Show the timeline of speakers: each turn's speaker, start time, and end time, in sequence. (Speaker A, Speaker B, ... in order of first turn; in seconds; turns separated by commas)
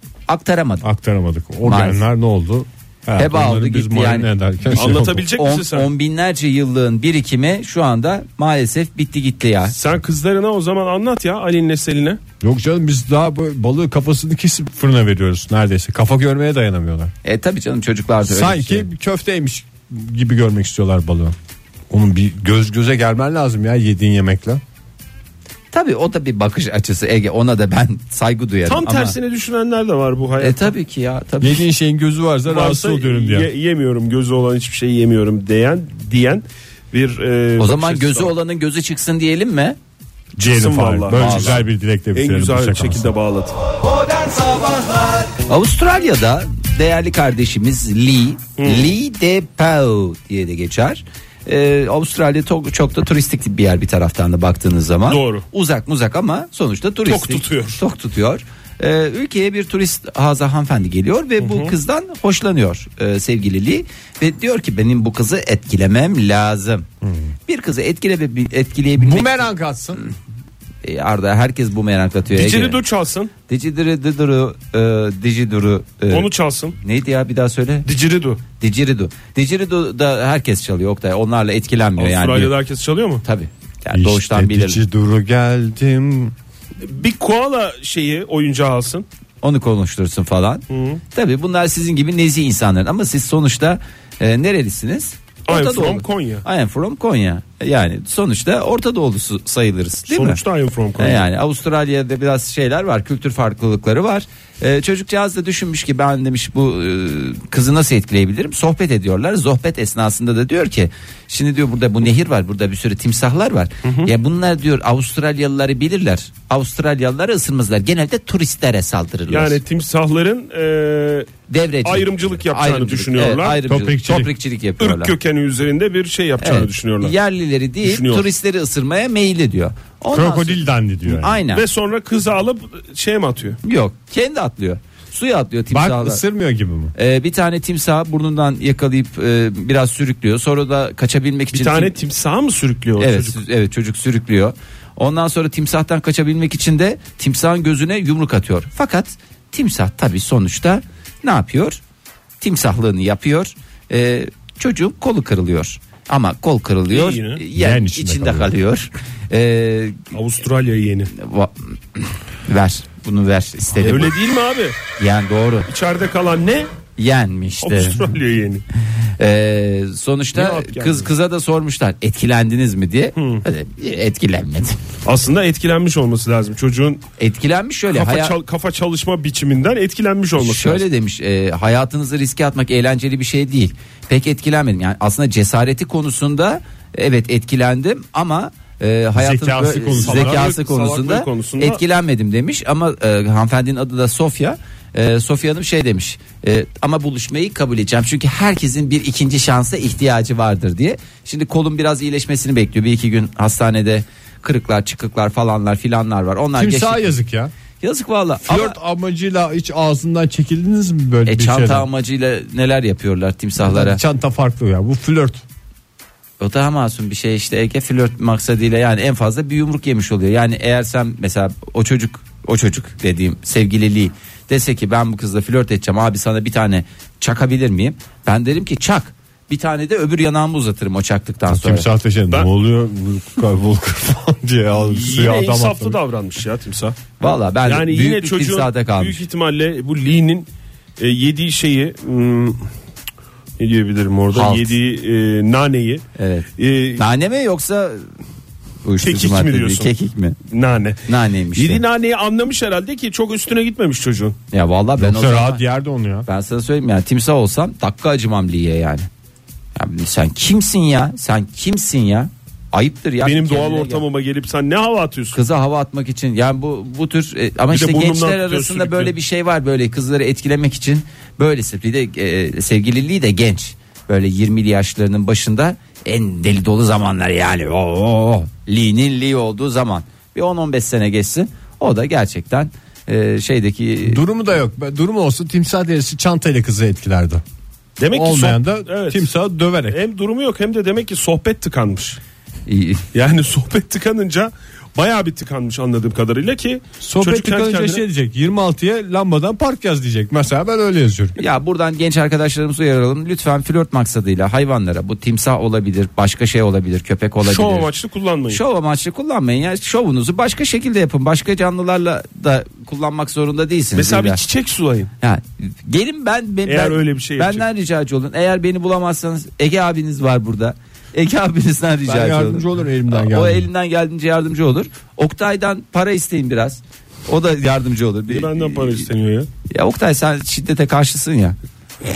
Speaker A: 0.3-0.8, Speaker B: 0.8-5.3, Speaker A: 1.6-2.0, Speaker A: 3.2-9.7, Speaker C: 4.7-5.9, Speaker C: 9.7-12.2, Speaker B: 12.4-17.1, Speaker A: 17.2-18.9, Speaker B: 18.3-21.3, Speaker B: 21.9-24.6, Speaker A: 25.7-29.1, Speaker C: 28.6-30.7, Speaker A: 30.4-31.6, Speaker B: 31.4-33.5, Speaker C: 32.5-38.3, Speaker A: 37.6-39.8, Speaker B: 40.4-43.1, Speaker C: 40.4-41.6, Speaker A: 41.1-41.6, Speaker C: 42.1-43.6, Speaker A: 44.0-66.9, Speaker C: 48.6-48.9, Speaker C: 55.1-55.5, Speaker C: 57.1-57.8, Speaker C: 61.4-61.8, Speaker A: 67.5-70.1, Speaker B: 69.0-70.0, Speaker A: 70.8-72.8, Speaker C: 72.3-73.3, Speaker A: 73.5-77.9, Speaker C: 76.1-76.8, Speaker C: 77.8-78.4, Speaker A: 78.6-82.5, Speaker C: 82.0-83.2, Speaker A: 83.2-84.8, Speaker B: 83.9-86.3, Speaker C: 86.8-89.0, Speaker A: 89.4-100.4, Speaker C: 90.7-91.0, Speaker C: 95.5-96.4, Speaker C: 100.1-101.2, Speaker A: 101.0-119.6, Speaker C: 113.8-114.1, Speaker C: 119.3-121.3, Speaker A: 121.5-125.1, Speaker C: 121.8-123.6, Speaker B: 123.7-124.3, Speaker C: 124.8-127.1, Speaker A: 126.4-131.6, Speaker C: 127.8-128.3, Speaker B: 130.1-131.4, Speaker C: 131.5-133.6, Speaker A: 133.6-136.2, Speaker B: 135.7-136.9, Speaker A: 136.9-141.9, Speaker C: 141.5-143.4, Speaker A: 143.0-151.8, Speaker A: 152.4-160.1, Speaker C: 156.9-157.4, Speaker B: 157.5-158.5, Speaker C: 160.1-161.1, Speaker A: 161.1-164.1, Speaker C: 163.8-164.8, Speaker A: 165.0-165.7, Speaker C: 165.7-166.7, Speaker A: 167.0-168.1, Speaker C: 167.6-168.6, Speaker A: 169.2-174.8, Speaker C: 170.3-171.1, Speaker C: 173.2-173.4, Speaker C: 175.0-177.0, Speaker A: 177.2-178.3, Speaker C: 177.9-180.8, Speaker A: 180.4-207.1, Speaker B: 189.1-190.4, Speaker C: 189.9-191.8, Speaker B: 206.6-207.5, Speaker A: 207.8-208.8, Speaker B: 208.4-211.9, Speaker A: 211.2-214.0, Speaker B: 213.6-215.4, Speaker A: 216.4-231.9, Speaker B: 231.5-236.0, Speaker C: 234.8-237.0, Speaker A: 237.2-239.2, Speaker C: 237.7-242.7, Speaker C: 243.6-246.0, Speaker A: 244.3-244.8, Speaker A: 246.2-248.0, Speaker C: 246.6-247.0, Speaker A: 248.8-250.4, Speaker C: 249.0-249.9, Speaker C: 250.5-251.0, Speaker A: 251.1-251.8, Speaker C: 251.5-254.3, Speaker A: 254.5-255.6, Speaker B: 255.0-256.3, Speaker A: 256.2-259.1, Speaker A: 259.7-264.0, Speaker C: 263.2-265.4, Speaker A: 265.3-284.2, Speaker C: 267.7-269.1, Speaker B: 284.0-287.4, Speaker C: 288.0-289.2, Speaker B: 288.1-290.0, Speaker C: 289.9-292.2, Speaker A: 292.7-293.1, Speaker C: 293.1-298.0, Speaker B: 297.0-301.4, Speaker A: 301.4-307.9, Speaker C: 307.4-308.6, Speaker A: 308.5-314.4, Speaker C: 313.9-315.1, Speaker A: 315.2-329.1, Speaker C: 316.7-317.6, Speaker B: 322.1-323.7, Speaker C: 328.3-329.5, Speaker A: 329.7-331.6